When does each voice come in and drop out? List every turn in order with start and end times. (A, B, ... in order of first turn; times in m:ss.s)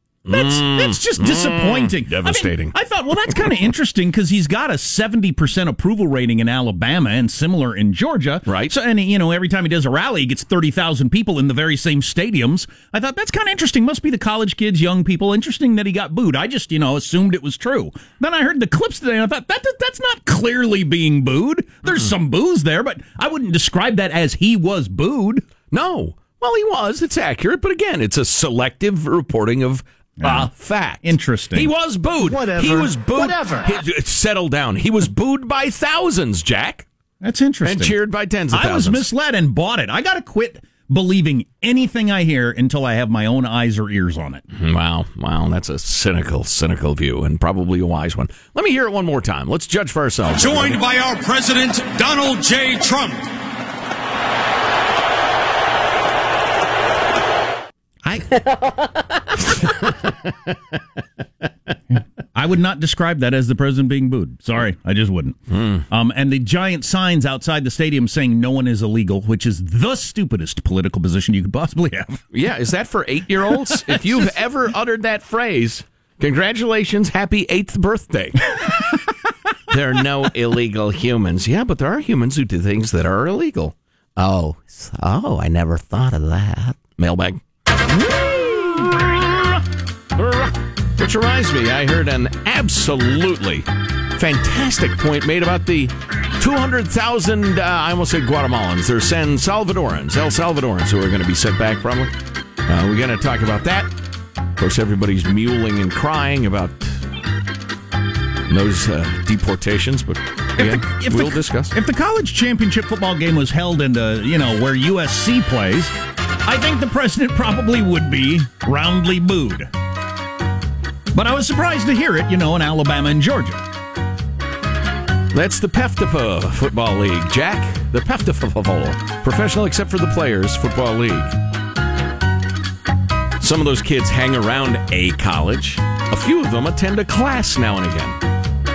0:00.3-0:02.7 A
0:00.3-0:25.5 B
0:08.5-0:08.7 A
0:25.7-0:36.9 A
0:30.2-0:30.5 B
0:31.0-0:31.7 B
0:37.2-0:38.0 B
0:37.6-0:39.1 A
0:38.5-0:44.4 B
0:44.5-0:50.8 A
0:50.3-0:53.3 C
0:58.0-0:58.3 B
1:02.3-1:05.4 B
1:05.5-1:05.8 A
1:05.9-1:12.2 B
1:12.3-1:18.7 A
1:13.6-1:14.3 B
1:19.7-1:27.4 A
1:28.0-1:29.6 A
1:30.2-1:42.1 A
1:42.7-1:43.9 A
1:44.6-1:47.0 A
1:48.5-1:51.7 A
1:50.6-1:55.9 B
1:56.4-1:59.7 B
2:01.1-2:03.6 B
2:05.3-2:11.3 A
2:13.4-2:18.2 A